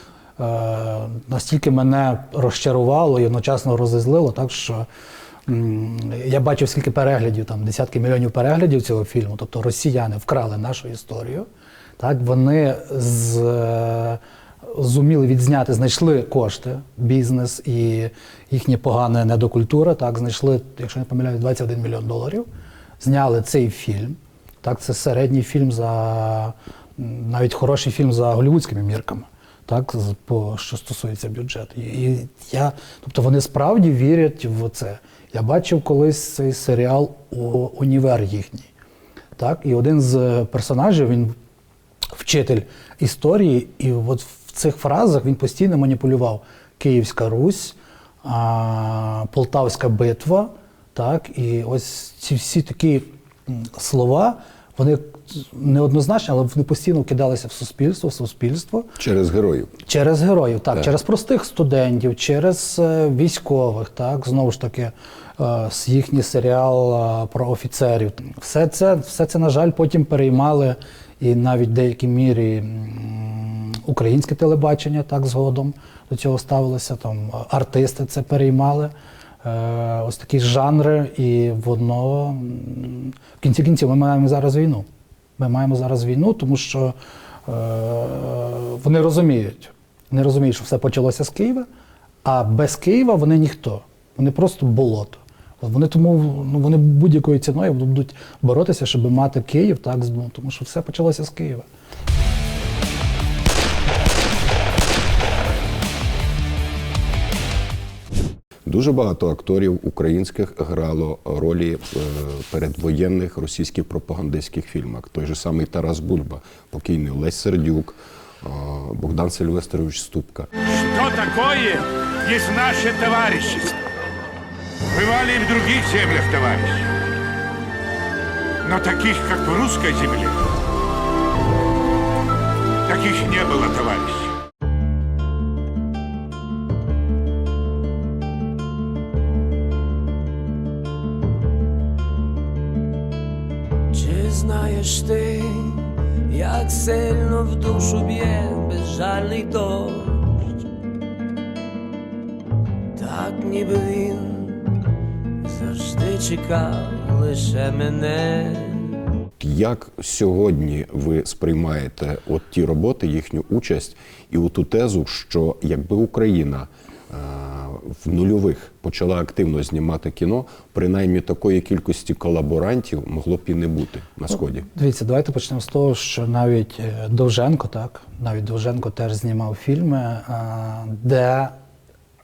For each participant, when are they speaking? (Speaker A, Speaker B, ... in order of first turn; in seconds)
Speaker A: 0.4-4.8, 5.5-11.5, 12.0-22.5, 23.0-38.7, 39.4-41.3, 42.1-58.9, 59.8-84.8, 85.4-86.9, 87.5-91.7, 92.2-101.7, 174.7-181.6
Speaker B: 59.0-59.7, 108.6-120.5, 159.4-174.7
Speaker C: 120.7-123.7, 124.9-126.9, 128.6-130.4, 132.9-134.3
Speaker D: 143.9-150.6, 152.9-154.8, 155.4-159.0